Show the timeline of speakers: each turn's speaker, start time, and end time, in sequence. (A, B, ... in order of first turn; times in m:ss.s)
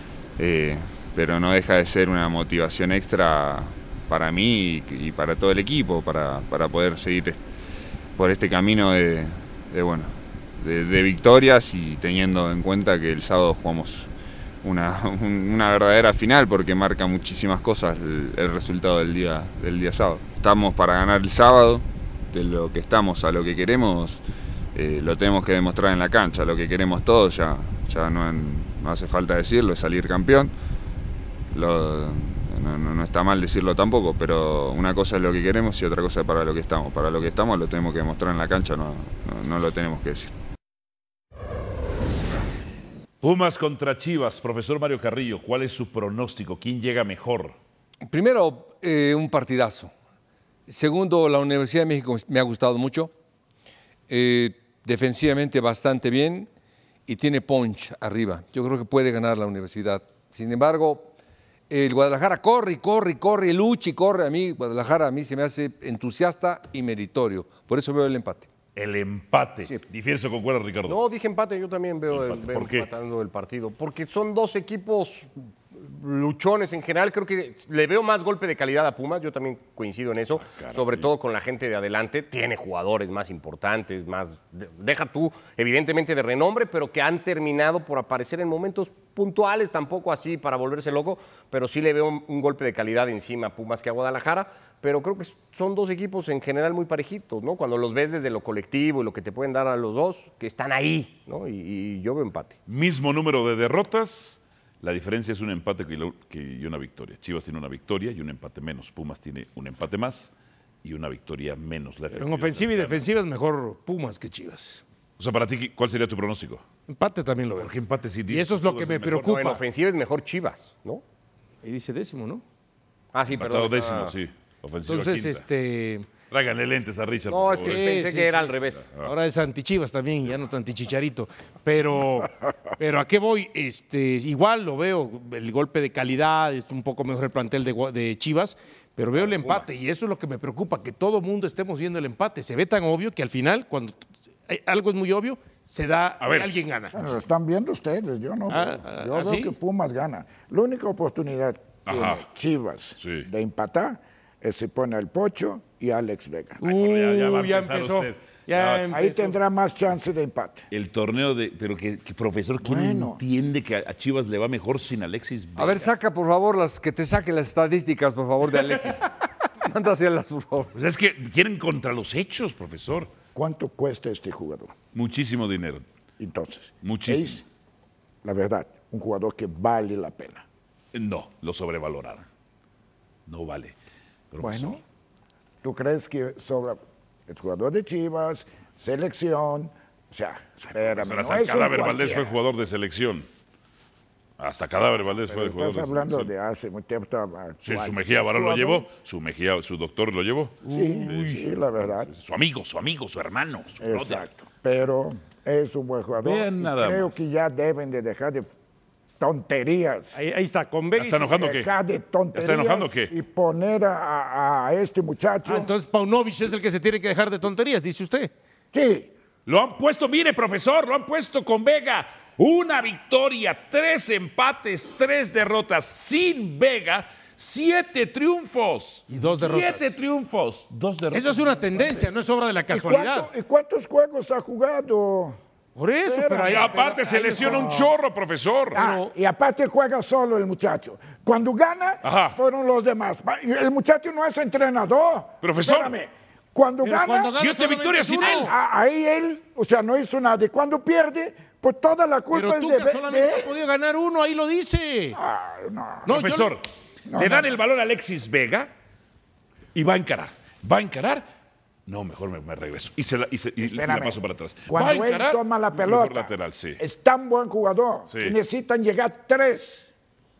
0:00.4-0:07.4 A
0:08.2-0:14.1 A
0:14.6-0:24.2 A
0:24.7-0:30.5 A
0:31.5-0:40.3 A
0:43.2-0:47.5 B
0:48.0-0:49.9 C
0:50.7-0:53.1 C
0:54.1-0:56.5 C
0:57.1-1:01.1 C
1:01.7-1:08.5 C
1:08.8-1:11.0 B
1:10.8-1:42.6 D
1:12.1-1:12.9 B
1:20.4-1:21.1 B
1:42.7-1:50.3 B
1:50.8-1:53.0 B
1:52.1-1:54.8 E
1:55.2-1:56.6 B
1:56.9-1:57.7 E
1:57.6-1:59.6 B
1:58.3-1:59.6 E
1:59.2-2:01.0 D
2:01.6-2:02.4 E
2:03.1-2:04.1 D
2:03.3-2:05.4 B
2:04.8-2:06.1 E
2:06.3-2:08.0 B
2:07.3-2:08.8 D
2:07.6-2:08.5 E
2:08.8-2:09.1 B
2:09.0-2:27.0 E
2:19.3-2:19.6 B
2:26.2-2:26.5 B
2:26.9-2:36.6 F
2:28.5-2:29.5 E
2:31.8-2:32.2 B
2:33.0-2:33.3 B
2:36.6-2:39.3 E
2:36.6-2:38.9 B
2:38.9-2:40.7 F
2:40.7-2:45.9 B
2:42.6-2:43.2 F
2:45.6-2:49.1 C
2:49.6-2:50.7 C
2:50.7-2:53.1 B
2:53.3-2:54.7 F
2:54.9-2:55.8 B
2:56.2-2:57.4 F
2:56.8-2:57.4 B
2:58.2-3:00.4 F
3:00.9-3:02.2 B
3:03.3-3:03.7 B
3:04.3-3:04.8 B
3:04.4-3:04.8 F
3:05.6-3:12.4 F
3:10.7-3:13.3 B
3:14.4-3:16.3 B
3:15.3-3:18.9 F
3:17.6-3:21.4 B
3:20.6-3:21.4 E
3:20.7-3:22.1 F
3:22.1-3:24.3 B
3:23.8-3:28.5 F
3:26.2-3:27.2 B
3:29.2-3:30.2 F
3:30.1-3:31.3 E
3:31.0-3:31.7 B
3:31.3-3:35.7 F
3:32.3-3:33.1 B
3:35.4-3:38.3 E
3:38.7-3:39.1 F
3:39.4-3:52.1 B
3:49.1-3:49.9 E
3:51.1-3:53.3 E
3:52.7-3:55.4 F
3:55.8-3:57.8 E
3:56.0-3:56.8 F
3:56.5-3:58.8 B
3:57.3-3:57.9 F
3:58.7-4:07.4 F
3:58.7-3:59.1 E
4:02.0-4:02.4 B
4:05.4-4:05.9 B
4:06.8-4:08.5 E
4:07.4-4:08.5 B
4:08.4-4:13.5 F
4:12.3-4:15.2 E
4:15.1-4:16.2 F
4:16.0-4:16.5 E
4:16.1-4:16.6 B
4:17.1-4:17.5 F
4:17.1-4:18.7 B
4:19.7-4:21.3 B
4:21.9-4:26.8 B
4:23.6-4:29.9 F
4:28.1-4:28.4 B